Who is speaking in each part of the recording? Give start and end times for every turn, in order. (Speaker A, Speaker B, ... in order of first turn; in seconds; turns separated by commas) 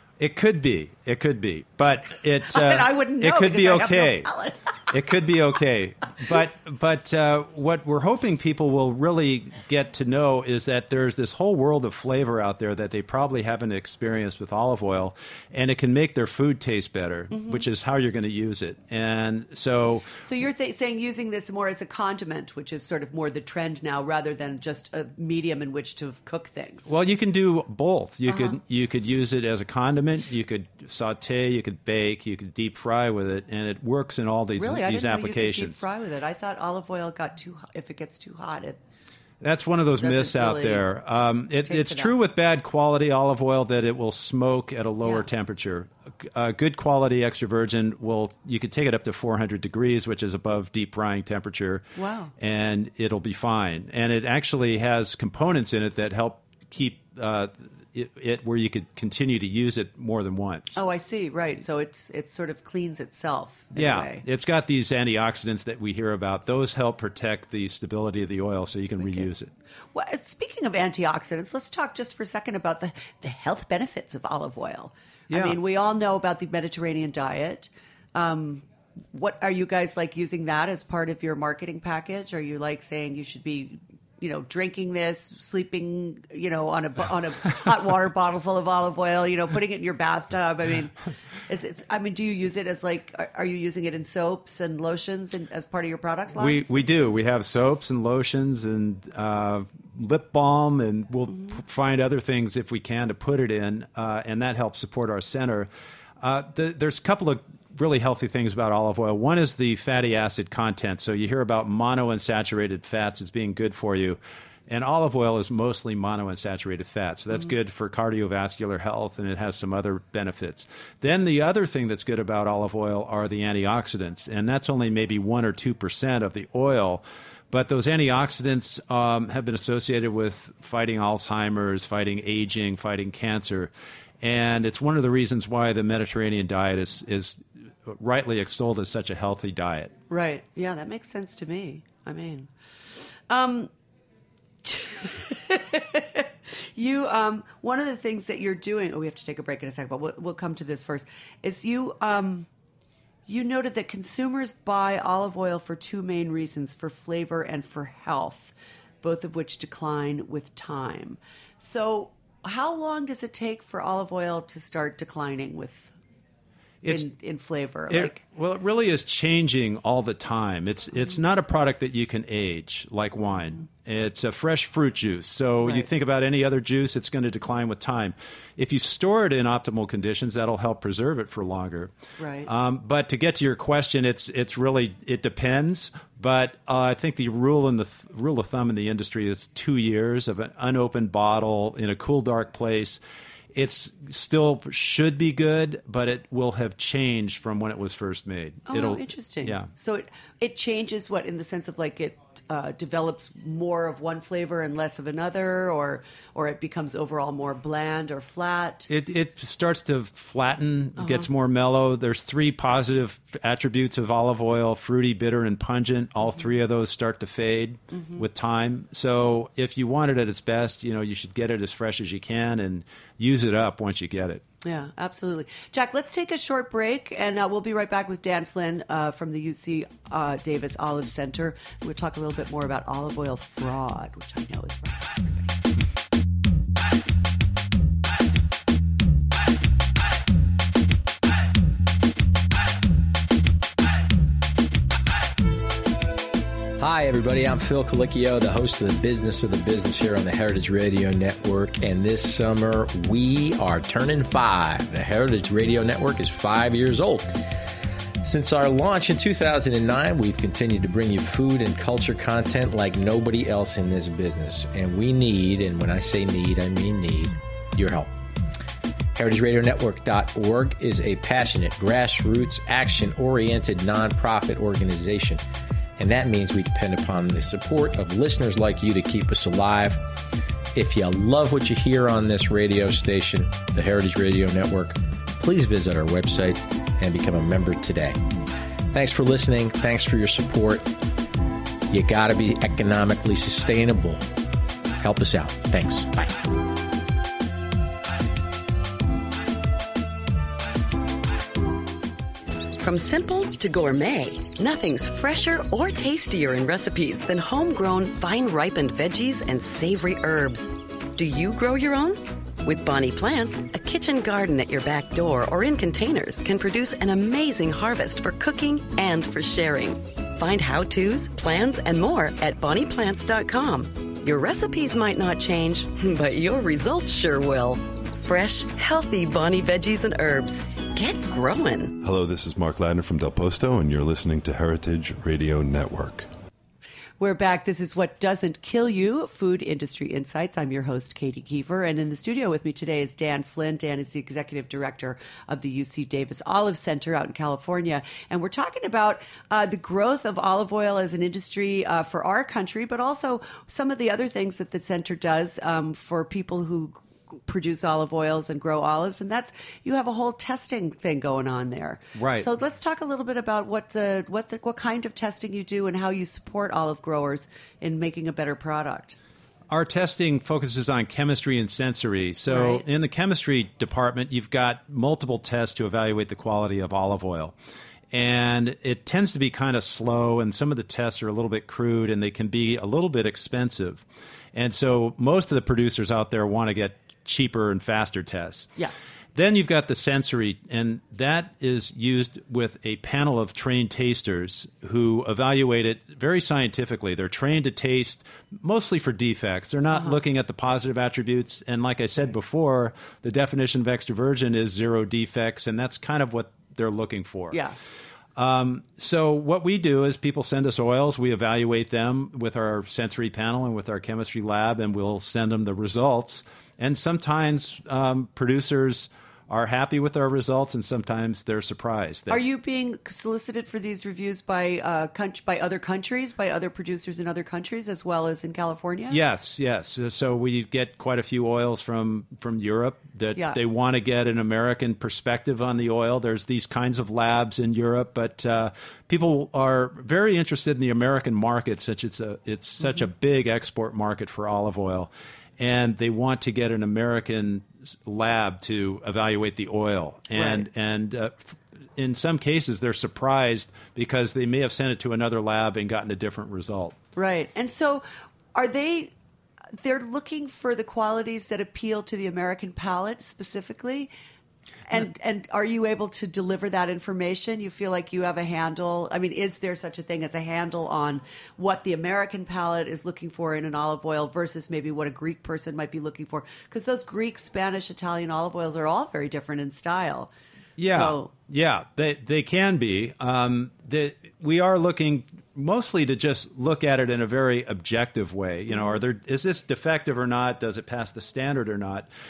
Speaker A: 0.2-4.3, Speaker B: 2.5-4.9, Speaker A: 4.9-20.1, Speaker B: 17.3-17.7, Speaker B: 20.2-26.9, Speaker A: 26.9-35.8, Speaker B: 28.3-28.5, Speaker B: 34.6-38.8, Speaker A: 39.4-60.8, Speaker B: 40.0-40.9, Speaker B: 41.6-42.1, Speaker B: 52.0-52.3, Speaker B: 60.7-64.2, Speaker A: 63.7-69.5, Speaker B: 69.0-69.3, Speaker B: 69.9-90.9, Speaker A: 75.3-75.6, Speaker B: 91.5-97.2, Speaker A: 96.4-105.7, Speaker A: 106.2-139.9, Speaker B: 140.1-143.7, Speaker B: 144.6-152.5, Speaker B: 153.3-165.9, Speaker B: 166.9-168.2, Speaker A: 167.9-181.9, Speaker B: 175.6-175.9, Speaker B: 182.2-182.5, Speaker A: 182.4-193.0, Speaker A: 193.5-199.7, Speaker B: 198.7-208.9, Speaker A: 208.9-224.4, Speaker B: 211.0-211.3, Speaker B: 217.9-218.2, Speaker B: 224.6-235.8, Speaker C: 246.8-257.3, Speaker C: 258.2-268.1, Speaker C: 269.1-275.4, Speaker C: 276.0-280.0, Speaker C: 280.7-288.2, Speaker C: 288.9-290.9, Speaker C: 291.9-294.2, Speaker C: 295.0-296.4, Speaker D: 302.8-332.0, Speaker E: 332.0-336.3, Speaker B: 337.2-369.2, Speaker A: 362.1-362.5, Speaker A: 369.7-377.6, Speaker B: 372.5-372.9, Speaker A: 378.1-388.7, Speaker A: 389.4-407.6, Speaker B: 407.5-407.8, Speaker A: 408.4-422.4, Speaker B: 422.3-429.2, Speaker A: 429.1-457.0, Speaker B: 450.4-450.6, Speaker B: 457.1-459.1, Speaker B: 459.7-464.1, Speaker B: 464.9-480.3, Speaker A: 480.8-492.1, Speaker B: 480.8-481.3, Speaker B: 488.7-489.0